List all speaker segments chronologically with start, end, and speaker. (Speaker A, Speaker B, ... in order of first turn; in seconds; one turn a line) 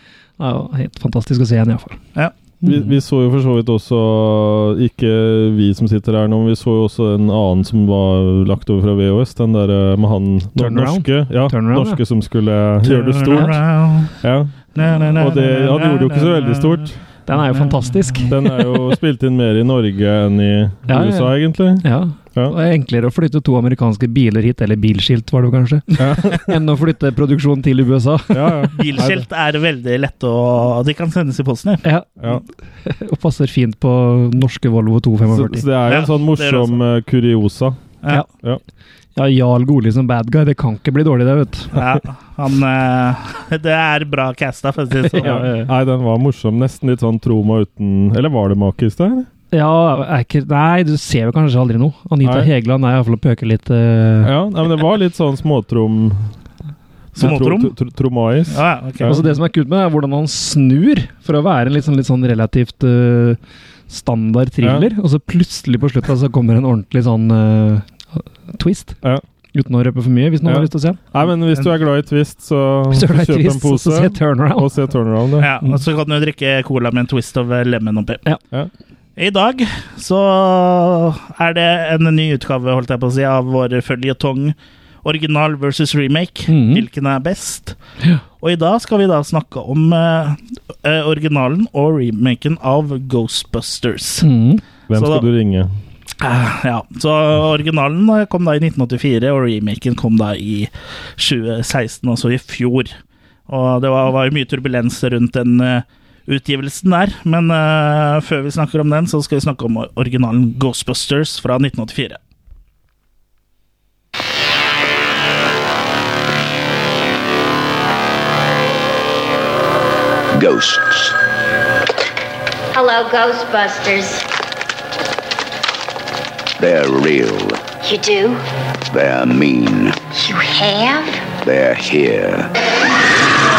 Speaker A: 0.4-2.0
Speaker A: 2.6-2.9
Speaker B: 2.6-13.6
Speaker A: 10.6-12.0
Speaker C: 12.8-14.2
Speaker B: 14.2-17.0
Speaker C: 14.7-16.9
Speaker A: 17.3-18.3
Speaker C: 17.5-18.3
Speaker B: 18.3-22.6
Speaker A: 20.9-28.7
Speaker B: 26.0-26.6
Speaker B: 28.3-29.2
Speaker C: 28.8-31.8
Speaker A: 31.8-35.6
Speaker B: 35.3-37.8
Speaker C: 35.9-36.8
Speaker A: 39.1-41.8
Speaker C: 41.7-45.6
Speaker B: 45.1-49.3
Speaker A: 45.2-45.5
Speaker A: 49.5-54.3
Speaker B: 52.2-52.5
Speaker B: 54.2-56.3
Speaker B: 57.1-59.2
Speaker C: 57.2-57.7
Speaker C: 58.5-59.1
Speaker A: 59.0-69.0
Speaker B: 64.6-64.9
Speaker A: 69.5-71.0
Speaker B: 70.4-75.5
Speaker A: 72.9-74.7
Speaker C: 75.4-78.2
Speaker C: 79.2-87.8
Speaker A: 86.5-86.8
Speaker C: 88.4-94.2
Speaker A: 94.2-94.6
Speaker B: 94.9-95.7
Speaker C: 94.9-95.2
Speaker C: 96.2-102.9
Speaker C: 103.5-112.2
Speaker D: 120.3-121.2
Speaker E: 122.7-124.2
Speaker D: 126.6-127.6
Speaker E: 127.8-128.4
Speaker D: 128.9-130.0
Speaker E: 130.1-131.3
Speaker D: 131.4-132.5